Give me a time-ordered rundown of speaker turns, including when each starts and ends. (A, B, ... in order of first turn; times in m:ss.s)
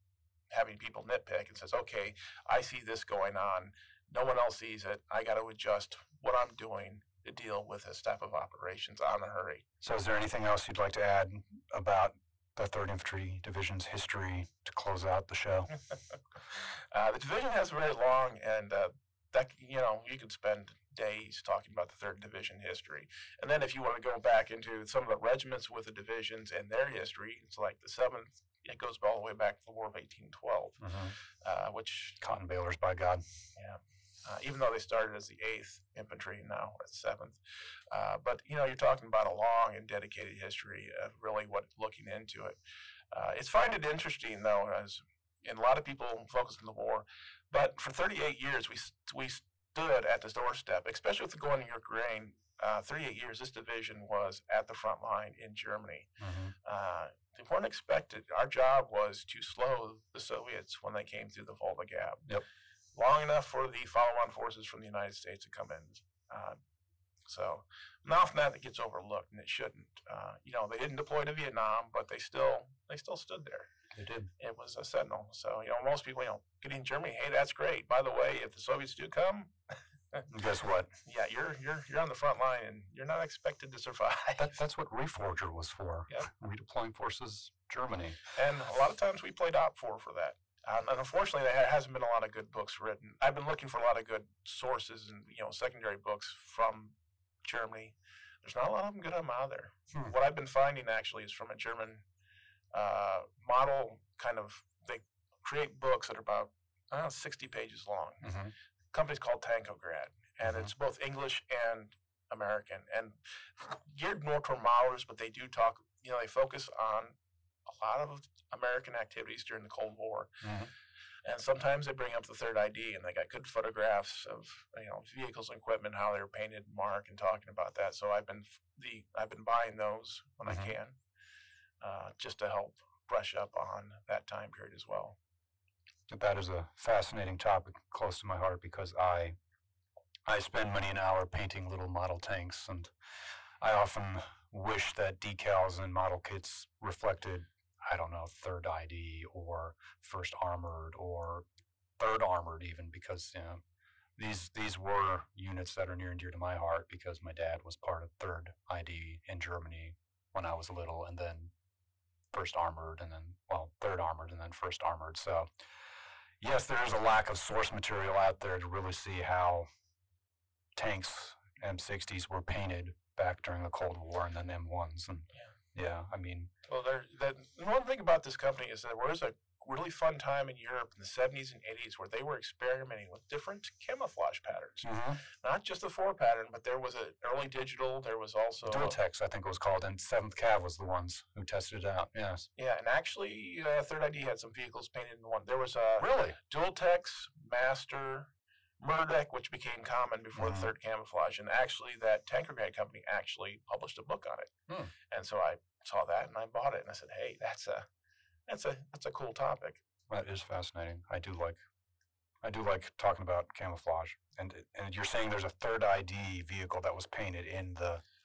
0:00.5-0:09.6 A
0:09.8-0:15.7 B
0:16.5-0:30.8 A
0:30.8-0:31.2 B
0:31.4-0:32.2 A
0:32.2-0:33.2 B
0:33.6-0:37.4 A
0:37.9-0:42.6 A
0:43.1-0:56.1 A
0:56.2-0:56.5 B
0:56.6-1:02.3 A
1:02.9-1:06.6 A
1:07.2-1:13.7 A
1:13.9-1:14.3 B
1:14.4-1:20.2 A
1:20.3-1:20.9 B
1:21.0-1:24.5 A
1:24.4-1:28.2 B
1:28.3-1:42.0 A
1:42.7-1:48.2 A
1:48.2-1:48.5 B
1:48.9-1:57.2 A
1:50.4-1:50.7 B
1:57.7-2:00.3 A
2:00.4-2:00.7 B
2:01.2-2:11.0 A
2:10.4-2:10.7 B
2:11.8-2:15.2 A
2:16.1-2:19.4 B
2:20.3-2:22.9 B
2:23.6-2:31.4 B
2:32.0-2:33.6 B
2:34.2-2:41.5 B
2:42.3-2:45.5 B
2:46.4-2:49.7 B
2:50.8-2:56.5 B
2:56.7-3:09.0 A
3:04.8-3:05.2 B
3:08.6-3:12.5 B
3:12.6-3:24.5 A
3:16.0-3:16.4 B
3:20.3-3:20.7 B
3:24.7-3:24.9 B
3:25.1-3:27.8 A
3:28.5-3:29.8 A
3:30.1-3:31.6 B
3:32.4-3:38.0 B